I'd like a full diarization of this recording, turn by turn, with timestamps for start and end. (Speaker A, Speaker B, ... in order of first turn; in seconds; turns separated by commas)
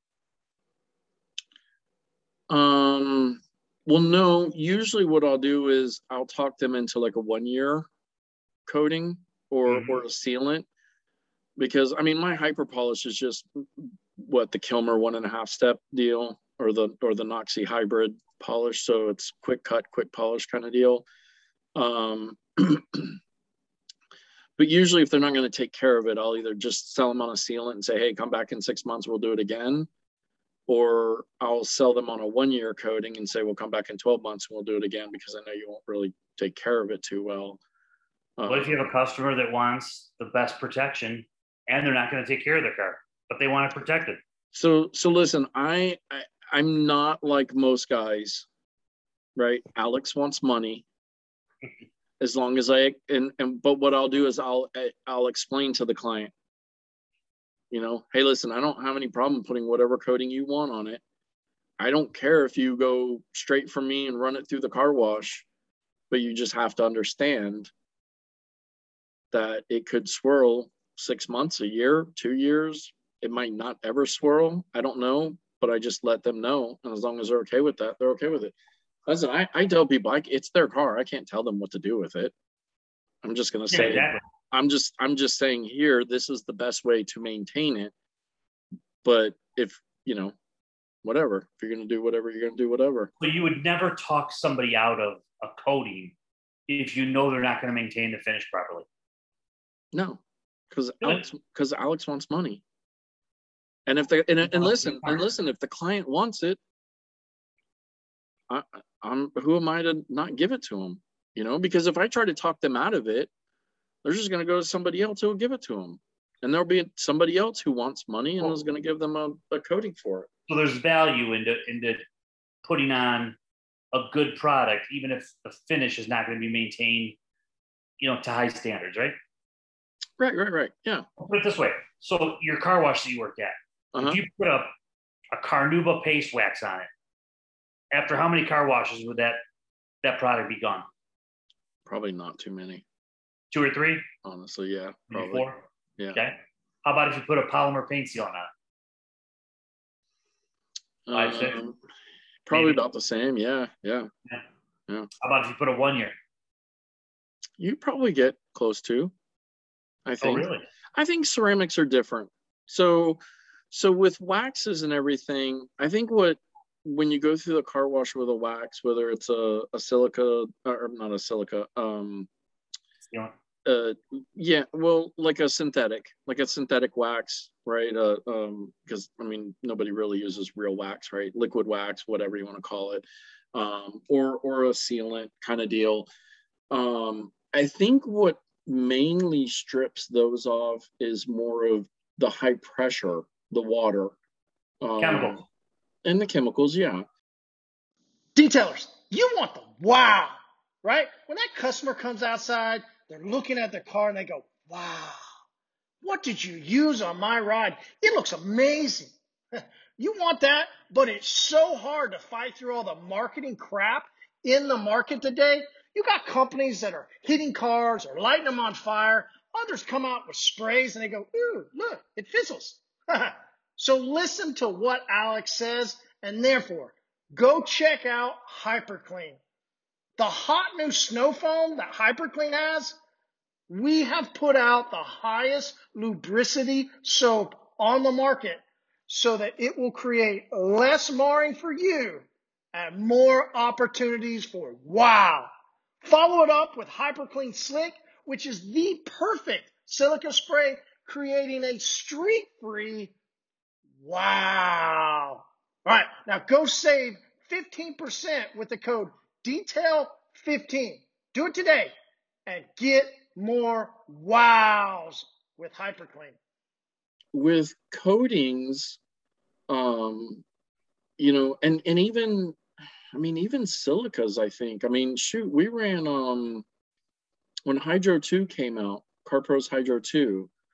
Speaker A: 2.5-7.9, Speaker A: 8.7-10.7, Speaker B: 9.7-10.0, Speaker A: 11.6-21.1, Speaker A: 21.8-23.2, Speaker A: 24.6-29.9, Speaker A: 30.7-37.6, Speaker A: 38.4-38.9, Speaker B: 38.5-44.2, Speaker A: 44.5-48.5, Speaker A: 49.4-50.9, Speaker A: 52.2-56.3, Speaker A: 57.7-61.0, Speaker A: 61.8-65.5, Speaker A: 66.1-67.7, Speaker A: 69.3-78.5, Speaker A: 79.1-82.3, Speaker A: 83.2-87.9, Speaker B: 83.7-84.2, Speaker A: 89.0-90.3, Speaker A: 91.0-93.1, Speaker B: 93.2-96.1, Speaker B: 96.7-98.9, Speaker A: 99.9-100.2, Speaker A: 100.7-102.6, Speaker A: 103.9-106.6, Speaker B: 104.5-105.2, Speaker A: 108.5-113.3, Speaker A: 114.0-120.3, Speaker B: 120.5-122.0, Speaker B: 122.6-123.4, Speaker B: 123.9-127.2, Speaker B: 128.0-129.2, Speaker A: 130.2-131.1, Speaker B: 131.2-134.7, Speaker A: 133.9-134.2, Speaker B: 135.3-136.9, Speaker B: 137.9-139.4, Speaker B: 140.0-140.9, Speaker A: 141.9-142.8, Speaker B: 143.5-144.1, Speaker A: 144.2-145.4, Speaker B: 145.1-145.6, Speaker B: 146.1-148.5, Speaker A: 151.1-151.8, Speaker B: 151.1-151.6, Speaker A: 152.5-154.1, Speaker B: 152.5-152.8, Speaker B: 155.2-156.2, Speaker A: 157.6-159.1, Speaker A: 160.1-163.2, Speaker B: 160.2-160.7, Speaker A: 163.7-172.3, Speaker A: 173.7-186.1, Speaker A: 186.7-194.1, Speaker A: 194.8-195.4, Speaker B: 195.0-195.4, Speaker A: 196.1-197.1, Speaker C: 198.3-205.2, Speaker C: 206.0-229.4, Speaker C: 230.2-233.0, Speaker C: 233.7-245.5, Speaker C: 246.0-253.1, Speaker C: 254.0-261.9, Speaker C: 262.5-266.4, Speaker A: 267.3-269.0, Speaker A: 269.7-270.4, Speaker A: 271.2-272.6, Speaker A: 273.1-276.6, Speaker A: 277.7-280.5